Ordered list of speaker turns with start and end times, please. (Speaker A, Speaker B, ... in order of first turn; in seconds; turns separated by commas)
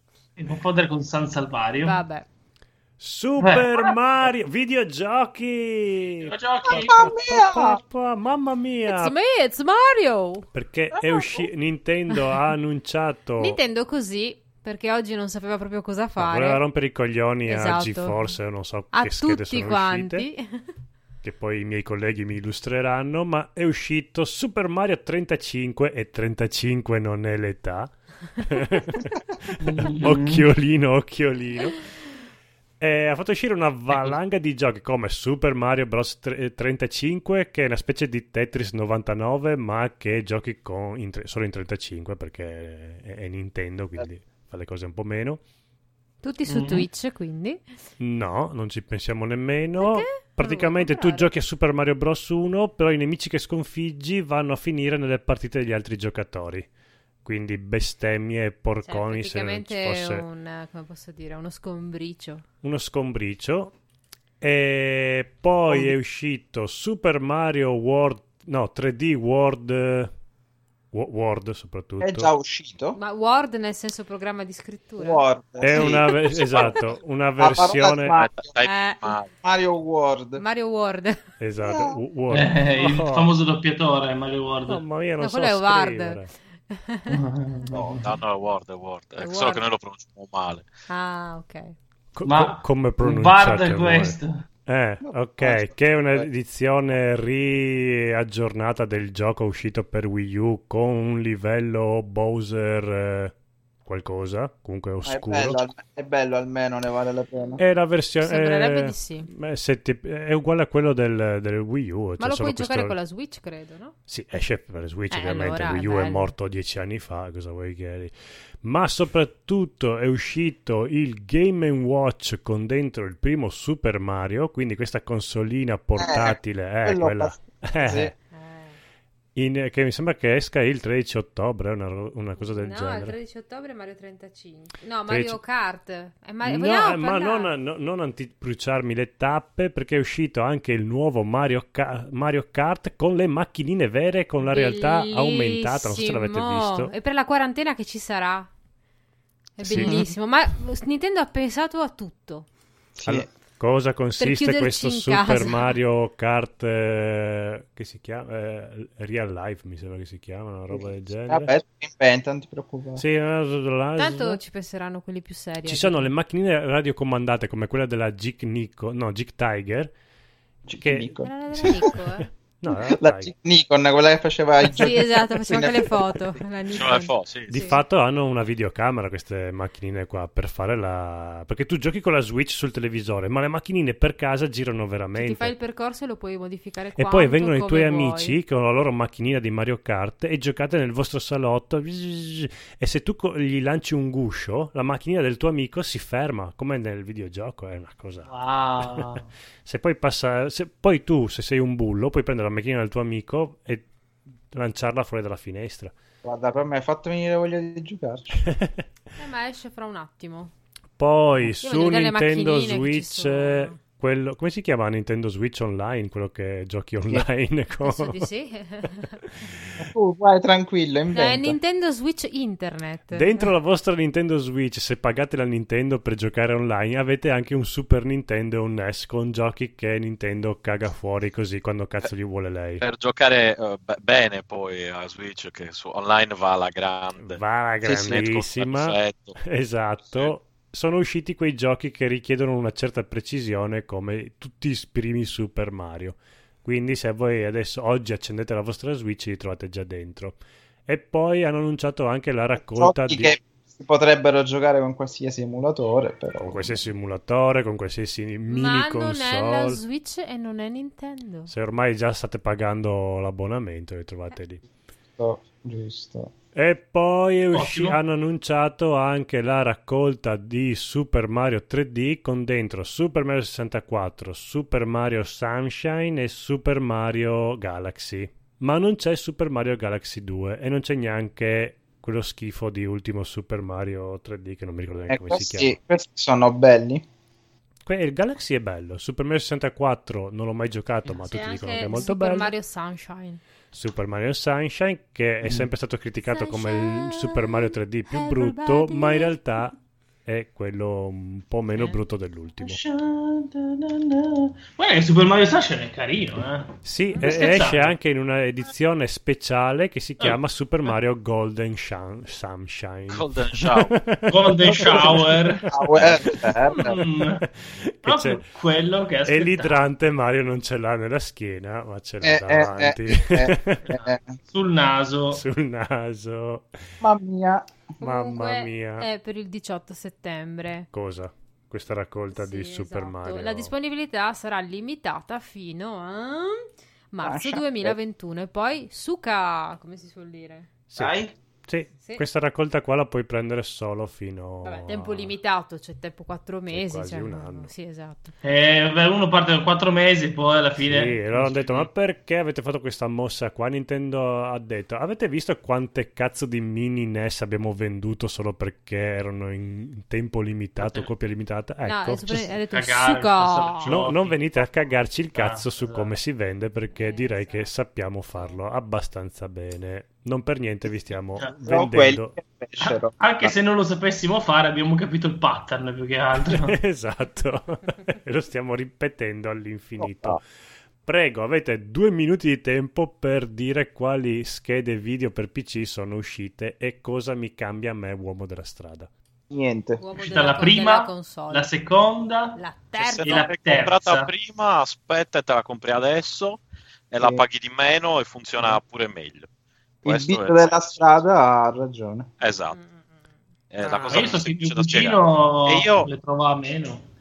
Speaker A: 0.4-2.0, Speaker B: 1.8-2.2, Speaker C: 3.0-9.1, Speaker A: 3.4-3.9, Speaker A: 6.2-7.1, Speaker D: 6.7-7.8, Speaker B: 8.9-10.5, Speaker C: 10.5-13.6, Speaker B: 13.4-16.6, Speaker C: 16.2-20.3, Speaker B: 17.4-18.3, Speaker B: 18.9-20.7, Speaker C: 21.2-31.8, Speaker A: 29.6-30.4, Speaker C: 32.8-45.4, Speaker B: 46.2-47.7, Speaker A: 46.4-46.9, Speaker C: 48.0-56.7, Speaker B: 49.8-51.3, Speaker C: 57.2-60.2, Speaker B: 58.8-62.4, Speaker C: 62.6-63.7, Speaker C: 64.4-70.1, Speaker D: 65.7-65.9, Speaker C: 70.9-72.3, Speaker D: 72.0-73.0, Speaker B: 72.9-75.9, Speaker D: 75.0-76.7, Speaker C: 75.6-78.2, Speaker E: 76.4-76.8, Speaker D: 77.4-78.5, Speaker E: 78.2-79.3, Speaker B: 78.7-79.1, Speaker D: 79.4-80.4, Speaker B: 80.4-81.2, Speaker C: 81.4-83.3, Speaker D: 81.6-82.0, Speaker A: 82.3-84.8, Speaker C: 84.7-86.3, Speaker B: 85.2-87.1, Speaker A: 87.1-88.0, Speaker D: 87.7-88.0, Speaker E: 88.0-90.7, Speaker B: 89.2-89.6, Speaker B: 90.9-91.7, Speaker C: 92.1-103.3, Speaker A: 92.2-94.5, Speaker D: 95.0-96.3, Speaker C: 103.8-105.7, Speaker D: 105.0-107.6, Speaker C: 107.6-113.0, Speaker B: 108.2-109.3, Speaker B: 112.2-114.0, Speaker C: 114.1-128.1, Speaker B: 115.1-116.3, Speaker D: 126.0-128.1, Speaker B: 128.3-128.8, Speaker C: 129.3-133.2, Speaker B: 132.4-137.6, Speaker C: 135.1-135.4, Speaker C: 136.4-146.9, Speaker B: 144.4-148.5, Speaker B: 149.6-152.5, Speaker D: 149.6-150.0, Speaker C: 149.6-150.0, Speaker D: 152.9-153.3, Speaker C: 153.0-161.5, Speaker B: 154.2-155.8, Speaker D: 160.7-163.0, Speaker C: 162.9-164.4, Speaker B: 163.9-166.1, Speaker C: 165.6-169.9, Speaker D: 170.7-171.9, Speaker C: 170.8-173.3, Speaker B: 171.2-172.3, Speaker D: 172.7-176.4, Speaker B: 174.6-177.8, Speaker E: 176.7-177.7, Speaker C: 177.5-185.5, Speaker B: 185.1-188.4, Speaker C: 186.9-198.3, Speaker A: 198.3-199.3, Speaker C: 199.6-203.9, Speaker C: 204.5-205.9, Speaker D: 206.2-208.4, Speaker C: 208.5-208.8, Speaker B: 209.2-210.5, Speaker C: 211.0-218.3, Speaker B: 211.5-213.8, Speaker B: 217.8-219.4, Speaker D: 219.8-221.6, Speaker B: 221.1-223.5, Speaker C: 223.1-232.8, Speaker E: 232.8-239.4, Speaker C: 237.2-253.3, Speaker D: 252.7-256.6, Speaker C: 256.4-259.8, Speaker B: 258.5-261.5, Speaker C: 261.5-264.6, Speaker D: 265.2-266.3, Speaker C: 266.5-285.8, Speaker A: 267.5-268.0, Speaker D: 285.1-287.0, Speaker C: 287.9-292.5, Speaker B: 291.2-293.4, Speaker C: 293.7-299.7, Speaker B: 296.2-299.4, Speaker C: 300.2-302.8, Speaker B: 301.7-302.0, Speaker A: 302.6-307.9, Speaker C: 306.8-318.4, Speaker E: 313.1-313.9, Speaker A: 314.3-315.6, Speaker D: 314.7-317.0, Speaker A: 316.7-317.4, Speaker A: 318.0-319.8, Speaker C: 319.2-323.9, Speaker D: 322.2-324.3, Speaker A: 323.9-325.4, Speaker C: 325.3-326.7, Speaker D: 327.0-327.9, Speaker B: 328.0-330.9, Speaker C: 328.0-329.1, Speaker C: 330.9-333.7, Speaker B: 332.3-340.7, Speaker D: 337.2-337.9, Speaker C: 340.9-345.3, Speaker D: 341.0-341.3, Speaker B: 344.6-348.3, Speaker C: 346.7-347.7, Speaker A: 348.4-351.9, Speaker C: 350.8-362.5, Speaker A: 360.8-361.1, Speaker B: 361.8-363.9, Speaker A: 362.7-364.7, Speaker C: 363.8-372.4, Speaker A: 365.3-366.1, Speaker B: 366.9-367.7, Speaker D: 371.6-373.5, Speaker A: 372.8-376.8, Speaker C: 376.5-380.4, Speaker D: 380.0-380.4, Speaker C: 381.0-389.1, Speaker D: 389.5-390.0, Speaker B: 390.0-391.6, Speaker A: 390.1-392.6, Speaker B: 392.5-393.5, Speaker E: 393.0-399.5, Speaker A: 393.2-394.3, Speaker E: 400.0-401.2, Speaker D: 400.0-402.3, Speaker E: 402.4-402.8, Speaker B: 402.7-403.2, Speaker E: 403.7-406.1, Speaker A: 404.1-407.0